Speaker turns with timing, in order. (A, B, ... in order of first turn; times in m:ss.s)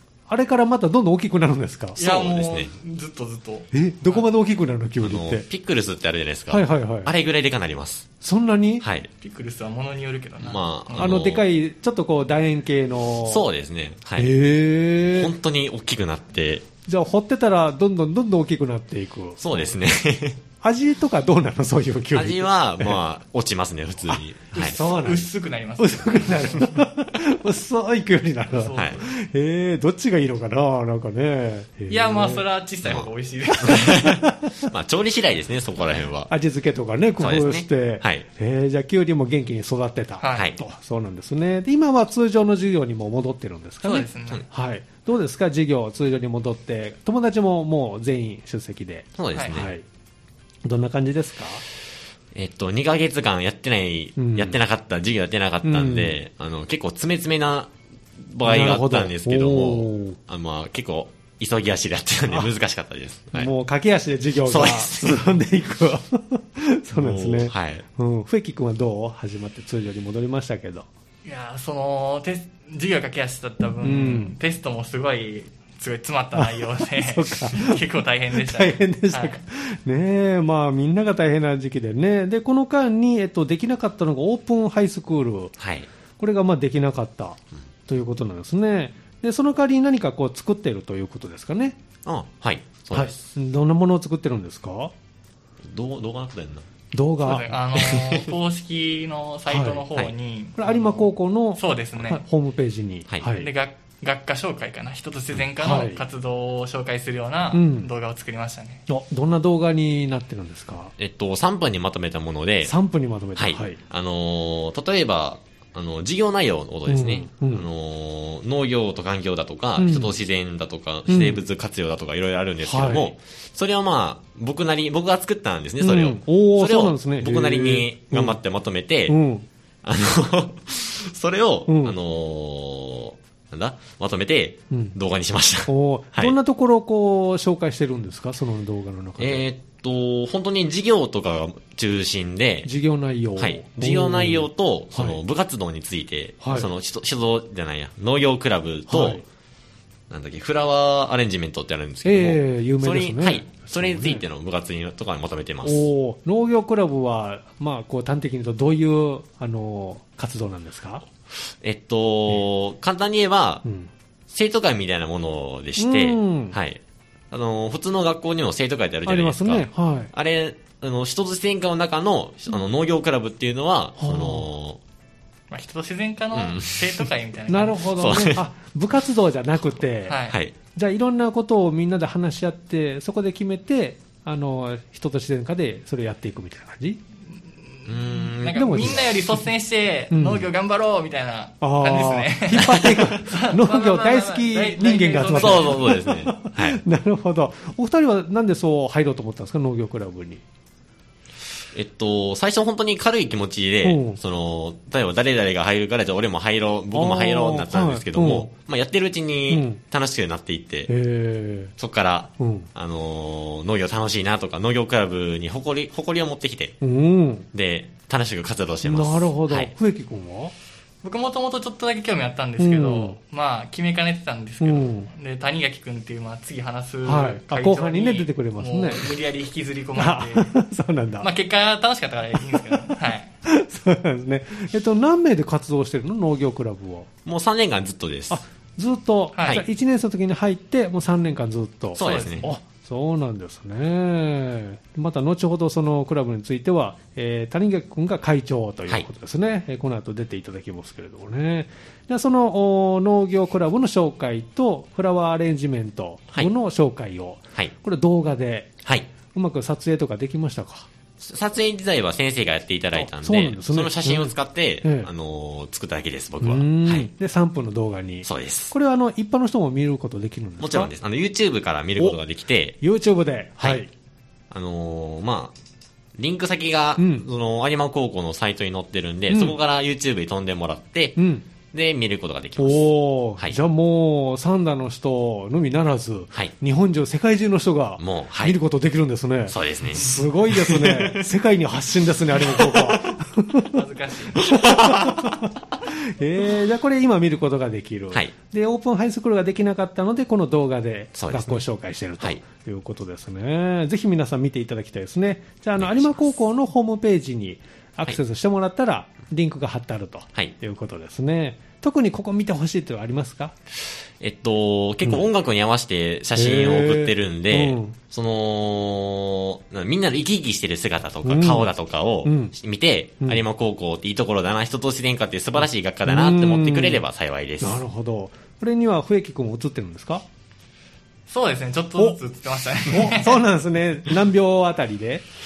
0:00.3-0:02.0 A
0:02.0-0:02.7 B
0:02.0-0:04.2 C
0:03.7-0:05.4 A
0:05.0-0:08.1 B
0:06.5-0:07.1 A
0:08.2-0:08.8 A
0:08.8-0:09.1 B
0:09.2-0:11.2 C
0:10.4-0:11.4 B
0:11.0-0:13.4 A
0:13.3-0:14.3 B
0:14.2-0:15.3 A
0:15.0-0:16.7 B
0:16.8-0:19.7 A
0:19.4-0:20.4 B
0:20.6-0:23.0 A
0:22.1-0:24.8 B
0:24.1-0:32.4 A
0:24.5-0:26.8 C
0:28.5-0:28.9 C
0:28.7-0:29.0 B
0:31.9-0:34.2 C
0:32.8-0:36.3 B
0:33.6-0:34.7 A
0:36.3-0:49.8 A
0:37.2-0:38.2 B
0:40.2-0:40.5 C
0:43.8-0:44.4 C
0:49.2-0:49.7 B
0:49.3-0:49.6 C
0:50.6-0:51.6 A
0:52.3-1:03.5 B
0:54.2-0:54.6 A
0:55.6-0:56.2 A
0:58.4-1:00.2 A
1:03.3-1:10.8 A
1:04.5-1:05.3 B
1:06.9-1:07.8 B
1:11.2-1:19.4 C
1:13.8-1:14.3 A
1:16.3-1:25.5 A
1:25.6-1:25.9 B
1:26.2-1:31.8 A
1:32.0-1:33.2 B
1:32.9-1:34.9 A
1:35.6-1:36.6 B
1:36.9-1:37.5 A
1:37.2-1:42.2 C
1:37.8-1:38.2 B
1:39.5-1:39.8 A
1:40.6-1:43.5 A
1:43.3-1:48.8 C
1:45.6-1:46.0 A
1:47.5-1:47.9 A
1:48.9-1:50.9 A
1:51.0-1:52.7 B
1:52.6-1:53.8 A
1:53.4-2:09.2 B
1:56.9-1:57.6 A
1:59.8-2:00.2 A
2:01.1-2:01.4 A
2:02.6-2:03.1 A
2:05.8-2:08.4 A
2:09.1-2:09.4 A
2:09.8-2:16.4 B
2:11.7-2:12.0 A
2:14.7-2:15.0 A
2:15.7-2:19.4 A
2:19.2-2:22.7 B
2:22.6-2:25.2 A
2:23.4-2:29.2 B
2:26.4-2:26.7 A
2:28.9-2:29.2 A
2:30.1-2:35.9 B
2:32.0-2:34.2 A
2:35.6-2:41.0 A
2:41.5-2:43.6 B
2:43.6-2:43.9 A
2:44.3-2:54.8 B
2:45.8-2:46.6 A
2:49.0-2:50.1 A
2:54.0-2:54.5 A
2:55.5-2:58.3 C
2:56.3-2:57.0 B
2:57.5-3:00.2 A
2:58.0-2:58.4 B
3:00.1-3:00.4 C
3:00.7-3:07.0 A
3:07.7-3:16.0 C
3:07.9-3:09.0 B
3:08.5-3:09.5 A
3:10.1-3:10.5 A
3:11.6-3:20.4 A
3:15.3-3:16.8 B
3:21.7-3:30.9 B
3:23.8-3:24.2 A
3:26.9-3:28.5 A
3:29.5-3:29.8 A
3:30.9-3:31.7 A
3:31.8-3:36.8 B
3:32.4-3:32.7 A
3:36.8-3:37.5 A
3:37.5-3:39.7 B
3:38.8-3:40.5 A
3:41.0-3:50.6 C
3:42.6-3:43.2 A
3:44.6-3:45.1 A
3:47.0-3:49.1 A
3:50.0-3:51.3 A
3:51.2-3:53.3 C
3:52.4-3:52.9 A
3:53.4-3:57.1 A
3:57.2-3:58.4 B
3:58.3-4:18.7 A
3:59.3-3:59.6 C
4:02.0-4:02.5 B
4:02.0-4:02.5 C
4:19.3-4:20.9 A
4:21.2-4:27.1 B
4:22.9-4:25.1 A
4:26.4-4:30.9 A
4:28.2-4:28.7 B
4:30.6-4:32.8 B
4:32.8-4:33.9 A
4:33.6-4:33.8 B
4:34.5-4:35.5 B
4:36.2-4:41.2 B
4:37.0-4:37.2 A
4:39.3-4:39.6 A
4:41.2-4:41.4 A
4:41.7-4:43.6 B
4:42.6-4:55.5 A
4:48.0-4:48.6 B
4:49.5-4:51.3 B
4:53.7-4:54.5 C
4:54.4-4:55.4 B
4:56.0-5:13.5 A
5:01.2-5:01.6 B
5:05.8-5:06.1 B
5:14.2-5:27.8 B
5:16.3-5:18.0 A
5:21.2-5:21.7 A
5:22.2-5:22.5 A
5:26.0-5:27.0 A
5:27.6-5:30.2 A
5:31.3-5:33.4 C
5:32.8-5:35.2 A